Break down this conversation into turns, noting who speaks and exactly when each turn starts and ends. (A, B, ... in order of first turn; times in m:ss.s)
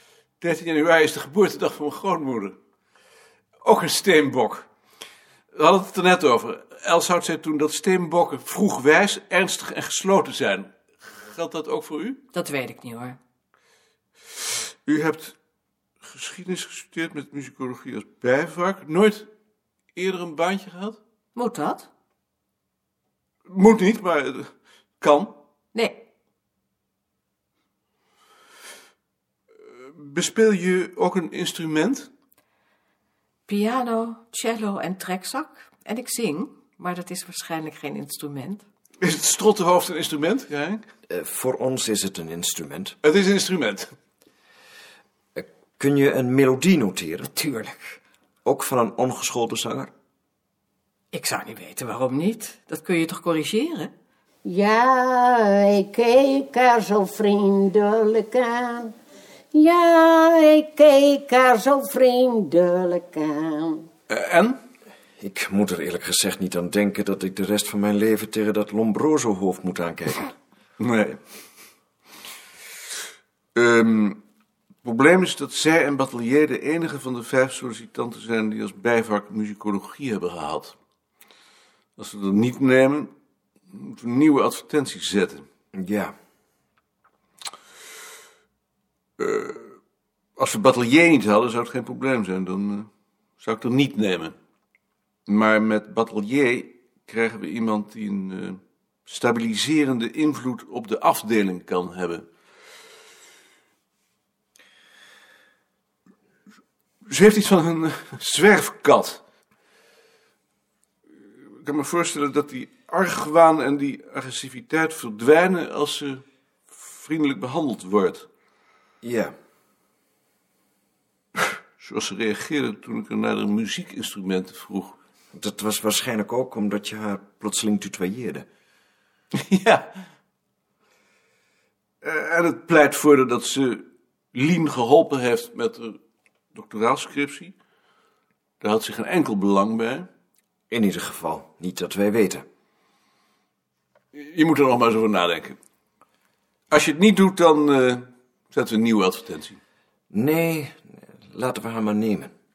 0:00.4-0:02.6 A
0:03.6-0:04.6 A
0:05.5-0:12.2 A
0:12.3-0:13.2 B
0:14.8-0:15.4 A
0:16.0-0:19.3 A
0:19.9-0:21.0 A
0:21.3-0:21.9 B
0:23.5-0:24.5 A
0:25.0-0:25.4 A
0:25.7-0:26.0 B
0:29.9-0:32.1 A
0:33.5-0:38.6 B
0:39.0-0:40.8 A
0:41.1-0:43.0 C
0:43.0-0:43.9 A
0:45.3-0:49.9 C
0:51.1-0:53.9 B
0:54.4-0:58.9 D
0:59.5-1:03.8 D
1:04.1-1:04.6 A
1:05.2-1:10.3 C
1:10.8-1:11.2 A
1:13.5-1:14.2 A
1:14.8-1:20.8 A
1:22.0-1:23.1 A
1:23.7-1:25.4 A
1:25.7-1:26.1 C
1:29.2-1:29.7 A
1:30.4-1:32.9 A
1:33.4-1:34.3 A
1:35.3-1:42.2 A
1:47.1-1:49.2 A
1:51.6-1:58.3 A
1:59.0-1:59.3 C
2:01.8-2:04.9 A
2:05.3-2:08.4 C
2:09.4-2:09.9 A
2:12.0-2:16.0 A
2:16.5-2:17.5 A
2:18.6-2:20.1 A
2:20.7-2:22.4 C
2:24.1-2:25.6 A
2:26.7-2:29.6 A
2:30.1-2:32.3 C